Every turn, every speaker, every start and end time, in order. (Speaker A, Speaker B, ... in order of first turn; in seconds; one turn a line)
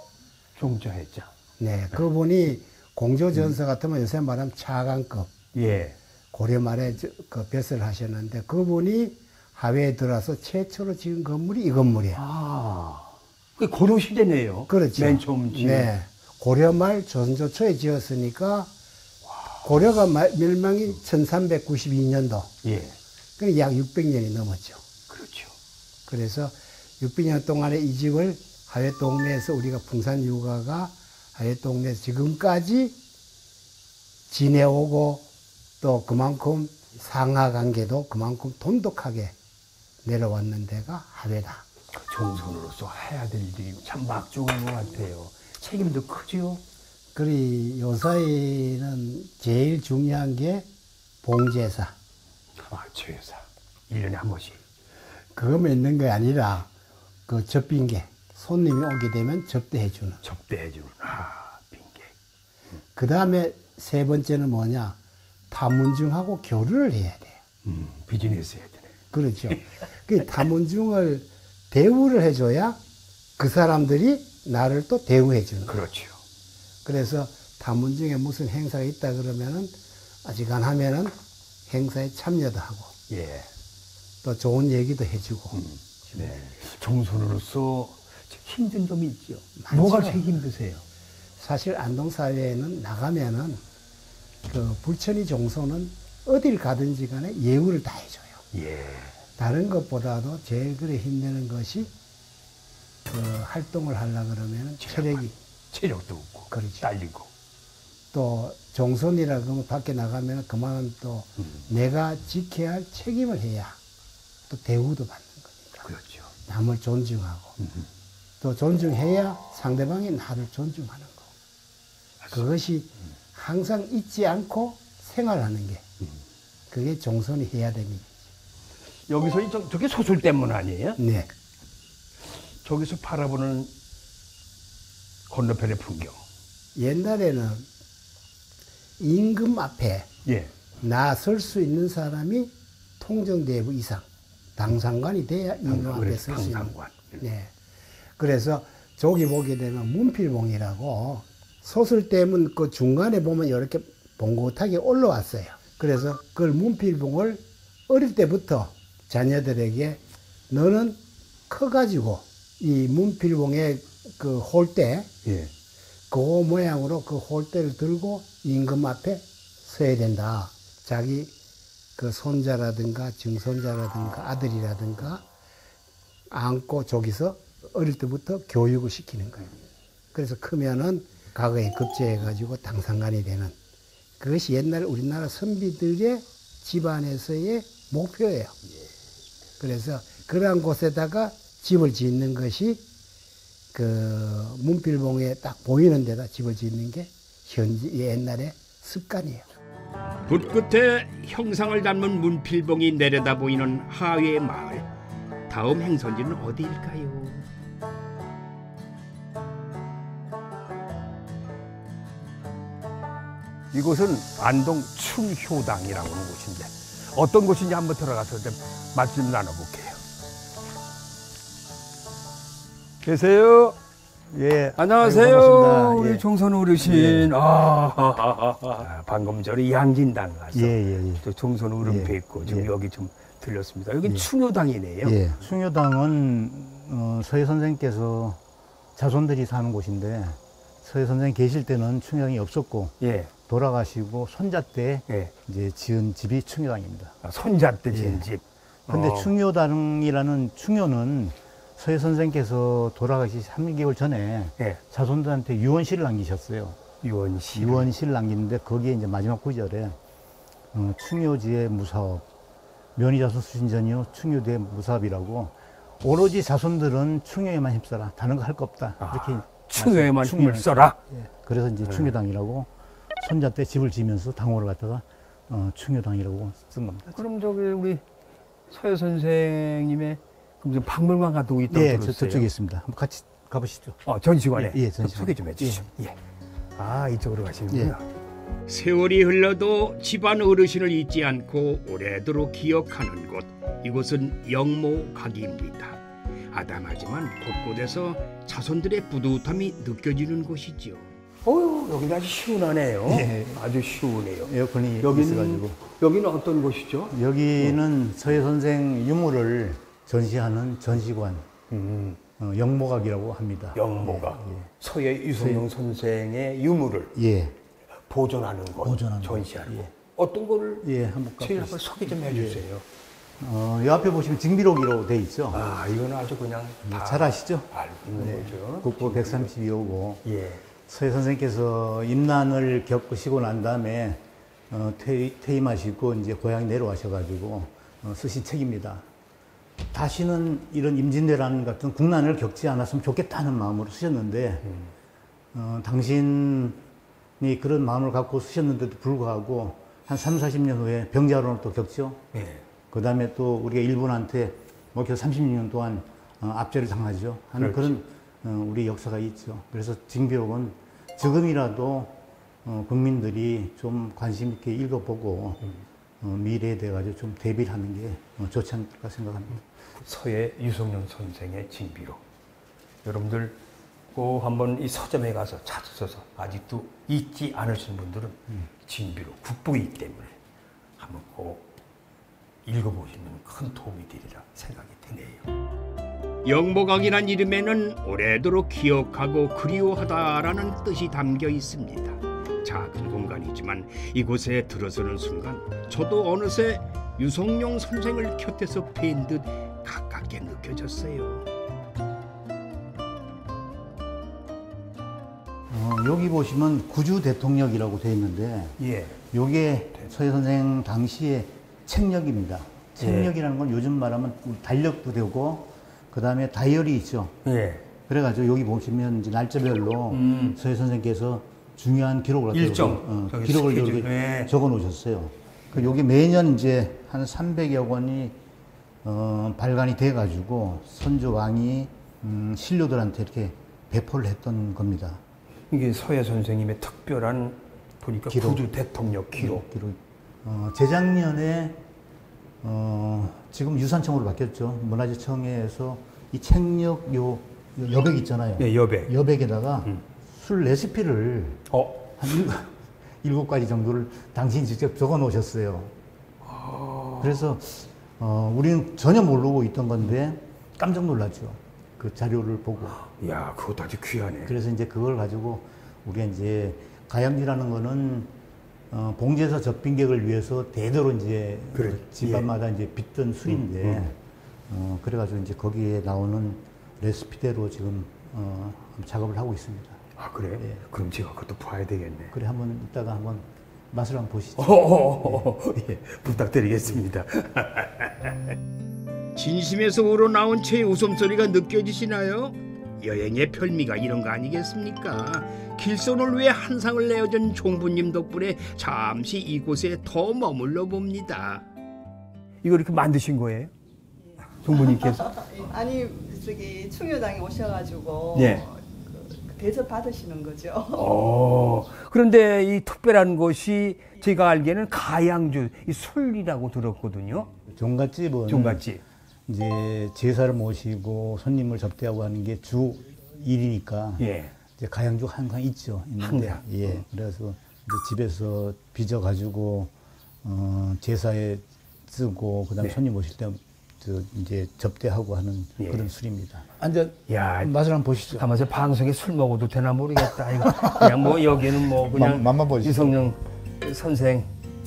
Speaker A: 0.6-1.3
Speaker B: 1.6-5.3
Speaker A: 5.5-6.0
Speaker B: 6.3-12.2
Speaker A: 12.2-15.9
Speaker B: 14.7-18.7
Speaker B: 19.6-22.5
Speaker A: 22.6-23.0
Speaker B: 23.4-24.8
Speaker A: 25.1-25.5
Speaker B: 26.1-33.0
Speaker B: 34.3-35.3
Speaker B: 35.8-39.4
Speaker B: 40.0-41.6
Speaker A: 42.1-46.6
Speaker B: 47.1-50.7
Speaker B: 51.2-51.9
Speaker A: 52.6-54.6
Speaker B: 55.4-56.7
Speaker B: 57.3-60.2
Speaker A: 60.2-62.1
Speaker B: 63.0-65.0
Speaker B: 65.5-67.4
Speaker A: 67.7-68.9
Speaker B: 69.1-72.8
Speaker B: 73.4-75.8
Speaker A: 75.7-76.2
Speaker B: 76.8-81.2
Speaker B: 81.7-82.9
Speaker A: 83.1-83.5
Speaker B: 84.2-85.6
Speaker A: 85.5-90.8
Speaker B: 89.6-90.3
Speaker B: 91.4-93.6
Speaker B: 94.5-98.4
Speaker A: 98.5-99.1
Speaker B: 99.4-101.9
Speaker B: 103.1-105.3
Speaker A: 104.8-107.3
Speaker B: 106.5-106.9
Speaker B: 108.1-113.8
Speaker B: 114.5-115.9
Speaker A: 115.8-116.3
Speaker B: 116.5-117.6
Speaker B: 118.4-121.3
Speaker B: 122.3-125.8
Speaker B: 126.7-128.1
Speaker A: 129.1-131.0
Speaker B: 131.0-131.3
Speaker A: 132.6-133.7
Speaker A: 135.3-136.2
Speaker B: 136.8-137.7
Speaker B: 139.0-140.1
Speaker A: 140.3-140.5
Speaker B: 140.8-144.1
Speaker B: 144.6-147.5
Speaker A: 145.7-147.2
Speaker B: 148.2-165.1
Speaker A: 165.2-165.5
Speaker B: 166.1-171.3
Speaker B: 172.0-175.2
Speaker B: 176.3-179.6
Speaker B: 180.1-183.6
Speaker B: 184.2-188.6
Speaker B: 189.6-192.8
Speaker B: 193.7-199.5
Speaker C: 200.3-204.9
Speaker C: 205.5-207.4
Speaker A: 213.7-220.0
Speaker A: 223.0-223.8
Speaker D: 224.3-226.2
Speaker A: 224.8-235.2
Speaker D: 226.8-227.3
Speaker D: 230.5-231.2
Speaker D: 231.8-232.7
Speaker D: 235.0-238.4
Speaker D: 239.0-247.2
Speaker A: 243.0-243.3
Speaker A: 245.1-245.3
Speaker A: 247.2-249.3
Speaker D: 247.9-248.3
Speaker D: 248.9-256.8
Speaker A: 257.0-257.9
Speaker D: 257.5-260.0
Speaker D: 260.7-262.3
Speaker D: 262.9-277.2
Speaker A: 269.0-271.0
Speaker A: 277.1-278.0
Speaker A: 278.7-282.5
Speaker D: 281.7-284.0
Speaker A: 284.1-286.2
Speaker D: 284.5-285.9
Speaker A: 286.8-288.0
Speaker C: 288.7-296.0
Speaker C: 296.5-301.1
Speaker A: 301.4-307.8
Speaker D: 303.1-303.6
Speaker D: 304.4-305.8
Speaker D: 307.1-311.5
Speaker A: 311.7-312.2
Speaker D: 312.4-314.7
Speaker A: 313.8-317.1
Speaker D: 315.4-315.7
Speaker D: 317.1-317.6
Speaker A: 318.1-320.9
Speaker D: 318.8-319.9
Speaker D: 320.8-322.7
Speaker A: 321.4-322.8
Speaker D: 323.4-325.7
Speaker A: 325.5-329.5
Speaker D: 326.9-330.2
Speaker A: 330.2-330.6
Speaker D: 330.8-339.1
Speaker D: 339.9-344.7
Speaker D: 345.5-346.8
Speaker D: 347.4-352.2
Speaker A: 352.3-352.6
Speaker D: 352.9-365.7
Speaker A: 357.6-357.9
Speaker D: 366.2-369.6
Speaker A: 370.0-372.2
Speaker A: 373.0-373.6
Speaker A: 374.1-380.4
Speaker A: 381.0-381.7
Speaker A: 382.7-385.5
Speaker C: 386.4-401.5
Speaker D: 405.7-417.4
Speaker A: 408.8-409.2
Speaker A: 413.0-413.3
Speaker A: 417.4-417.8
Speaker D: 418.0-428.4
Speaker A: 420.1-420.6
Speaker A: 422.5-424.5
Speaker D: 429.0-435.2
Speaker A: 435.7-439.6
Speaker D: 438.3-438.7
Speaker D: 439.3-441.8
Speaker D: 442.6-455.9
Speaker A: 448.6-449.1
Speaker A: 451.7-452.1
Speaker A: 456.4-457.4
Speaker D: 457.2-463.0
Speaker A: 463.0-464.5
Speaker D: 464.4-468.3
Speaker D: 468.9-474.2
Speaker A: 471.7-472.5
Speaker A: 473.5-474.1
Speaker D: 474.7-480.0
Speaker A: 480.2-482.3
Speaker D: 480.6-480.8
Speaker D: 482.3-485.5
Speaker A: 484.6-488.5
Speaker C: 489.4-501.6
Speaker A: 502.6-503.7
Speaker A: 504.6-505.4
Speaker E: 504.7-511.1
Speaker A: 508.3-508.7
Speaker A: 510.9-517.5
Speaker D: 517.7-518.9
Speaker A: 518.5-519.0
Speaker D: 519.5-529.9
Speaker A: 524.2-524.5
Speaker A: 526.2-527.0
Speaker D: 530.4-538.5
Speaker A: 535.8-536.1
Speaker A: 537.3-537.7
Speaker A: 538.3-544.5
Speaker D: 540.6-543.2